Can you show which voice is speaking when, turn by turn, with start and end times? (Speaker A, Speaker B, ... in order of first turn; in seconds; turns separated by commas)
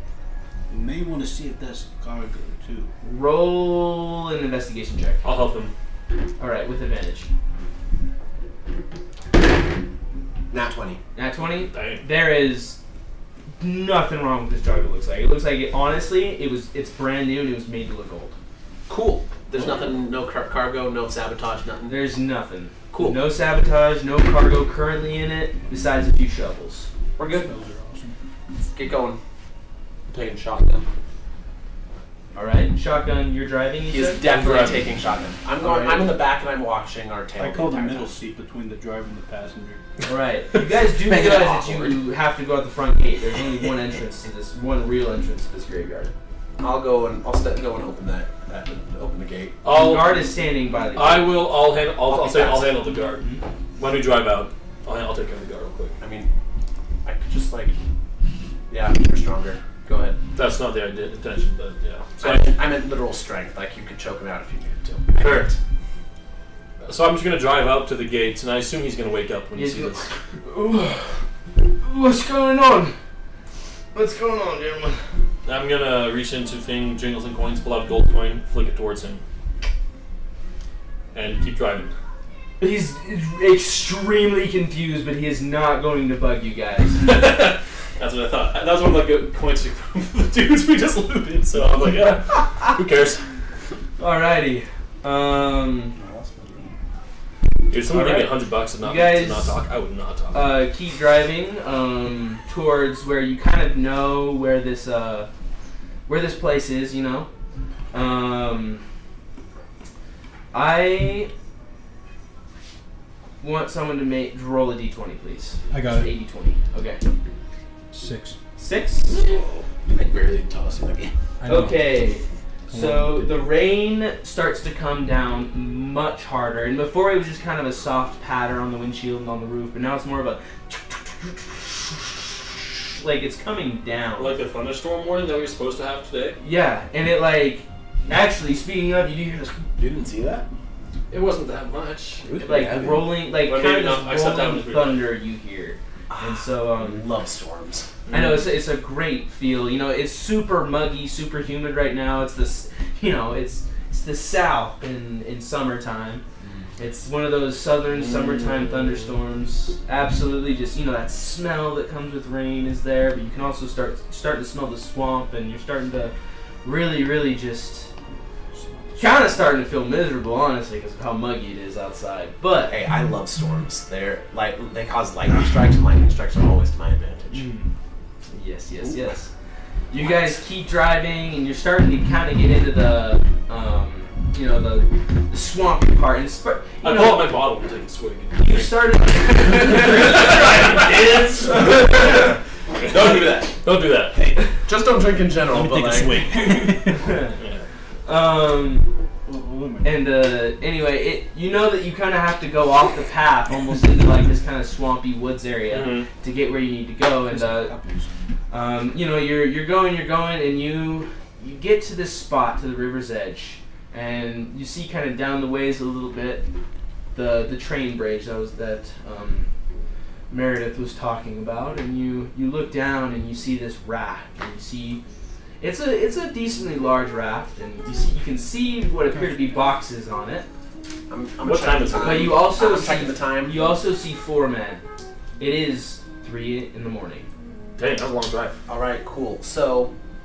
Speaker A: 0.7-2.9, Speaker B: 3.0-5.2, Speaker C: 5.2-5.7, Speaker B: 6.4-7.3, Speaker D: 10.5-11.0, Speaker B: 11.1-12.8, Speaker C: 11.7-12.1, Speaker B: 13.6-18.3, Speaker D: 18.9-22.0, Speaker B: 21.9-26.9, Speaker D: 22.9-23.2, Speaker D: 27.2-27.5, Speaker A: 27.2-28.1, Speaker D: 28.7-29.2, Speaker E: 30.1-30.8, Speaker B: 32.3-34.8, Speaker D: 33.9-38.1, Speaker C: 34.2-34.9, Speaker B: 35.6-36.1, Speaker A: 37.4-39.8, Speaker B: 40.0-46.1, Speaker E: 41.0-42.0, Speaker D: 46.6-49.6, Speaker C: 49.6-50.2, Speaker B: 49.7-51.4, Speaker C: 50.9-53.2, Speaker D: 52.0-52.8, Speaker C: 53.8-55.9, Speaker D: 56.0-56.3, Speaker D: 57.0-57.8, Speaker D: 58.7-60.2, Speaker C: 60.3-62.5, Speaker D: 62.2-65.6, Speaker C: 65.2-65.5, Speaker C: 66.8-70.1, Speaker B: 69.5-71.2, Speaker B: 71.8-72.9, Speaker B: 73.9-75.0, Speaker C: 75.4-79.2, Speaker C: 81.1-81.9, Speaker B: 82.6-87.0, Speaker C: 87.0-93.2, Speaker B: 94.0-95.9, Speaker E: 95.9-96.7, Speaker C: 97.7-100.6, Speaker B: 97.9-99.6, Speaker B: 100.3-105.3, Speaker B: 106.1-107.3, Speaker B: 107.9-108.8, Speaker B: 110.5-111.3, Speaker B: 113.4-117.0, Speaker A: 115.7-116.1, Speaker A: 117.9-118.4, Speaker B: 118.6-119.2, Speaker E: 119.1-121.1, Speaker A: 121.4-122.0, Speaker B: 121.5-134.4, Speaker A: 122.7-123.3, Speaker C: 134.2-136.4, Speaker B: 136.4-139.6, Speaker E: 139.8-140.5, Speaker D: 141.1-142.2, Speaker E: 142.2-143.1, Speaker B: 142.4-147.0, Speaker C: 143.4-145.1, Speaker D: 146.1-147.9, Speaker C: 148.1-148.4, Speaker B: 148.1-156.2, Speaker B: 156.8-166.1, Speaker C: 157.9-159.1, Speaker B: 166.6-167.9, Speaker A: 168.5-169.5, Speaker B: 169.0-172.7, Speaker D: 172.7-177.4, Speaker B: 177.3-177.7, Speaker B: 178.3-179.3, Speaker B: 179.9-187.3, Speaker C: 186.8-192.2, Speaker B: 188.3-192.4, Speaker C: 192.8-194.2, Speaker E: 192.9-193.5, Speaker D: 194.7-196.2, Speaker A: 195.4-197.1, Speaker B: 196.9-197.4, Speaker C: 197.4-197.6, Speaker B: 198.1-198.9, Speaker A: 199.2-200.0, Speaker B: 199.8-207.8, Speaker C: 205.7-206.1, Speaker A: 207.3-208.1, Speaker B: 208.5-216.4, Speaker B: 217.1-219.5, Speaker B: 220.3-225.0, Speaker B: 225.6-230.5, Speaker A: 229.1-229.6, Speaker D: 231.1-233.7, Speaker C: 231.4-232.4, Speaker B: 232.0-234.8, Speaker B: 235.4-237.3, Speaker C: 237.8-238.6, Speaker D: 238.7-239.9